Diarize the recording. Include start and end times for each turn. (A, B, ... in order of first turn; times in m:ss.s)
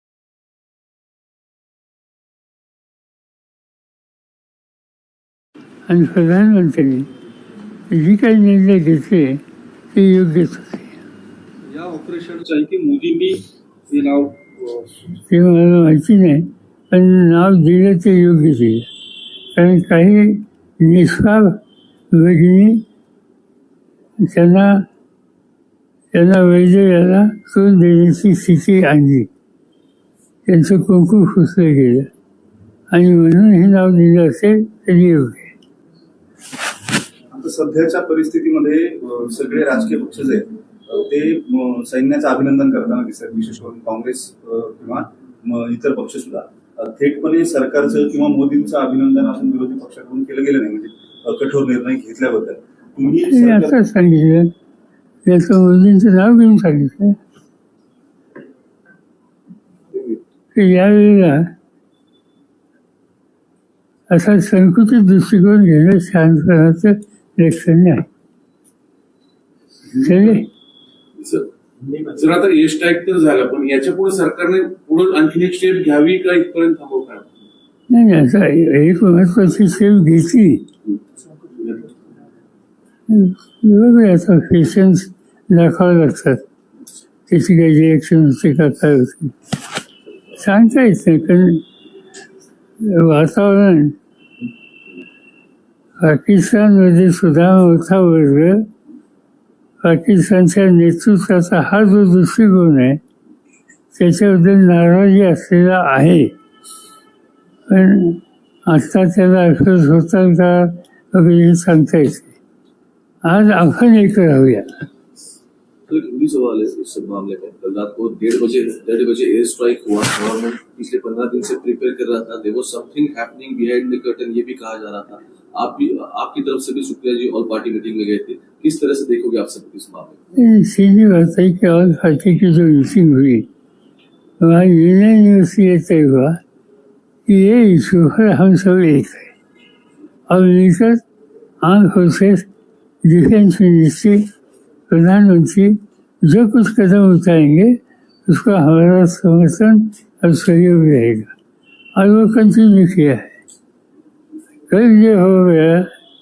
0:05.9-0:07.1 A
0:07.9-0:09.4 A
0:09.9-0:11.0 A
0:11.7-0:15.0 B
0:15.3-0:18.9 A
0:19.5-0:21.6 A
0:22.1-0:22.8 A
0:24.2-0:24.8 A
0:26.1-0:29.3 A
0:30.5-0:32.1 A
0:32.9-0:35.5 A
0:37.3-0:53.8 C
0:53.3-0:54.5 A
0:55.2-0:57.2 A
1:00.5-1:01.4 A
1:04.1-1:08.0 A
1:10.0-1:10.5 A
1:11.2-1:11.5 D
1:12.1-1:17.3 D
1:17.9-1:20.7 A
1:23.1-1:26.4 A
1:27.3-1:29.3 A
1:30.3-1:31.6 A
1:32.8-1:34.0 A
1:36.0-1:38.6 A
1:39.8-1:43.0 A
1:43.9-1:46.3 A
1:47.7-1:52.3 A
1:53.2-1:54.7 A
1:55.9-2:10.2 E
2:10.4-2:13.5 A
2:14.4-2:16.4 A
2:17.3-2:19.3 A
2:20.3-2:21.0 A
2:21.6-2:22.5 A
2:23.0-2:24.2 A
2:24.9-2:31.3 A
2:32.0-2:33.2 A
2:34.7-2:35.9 A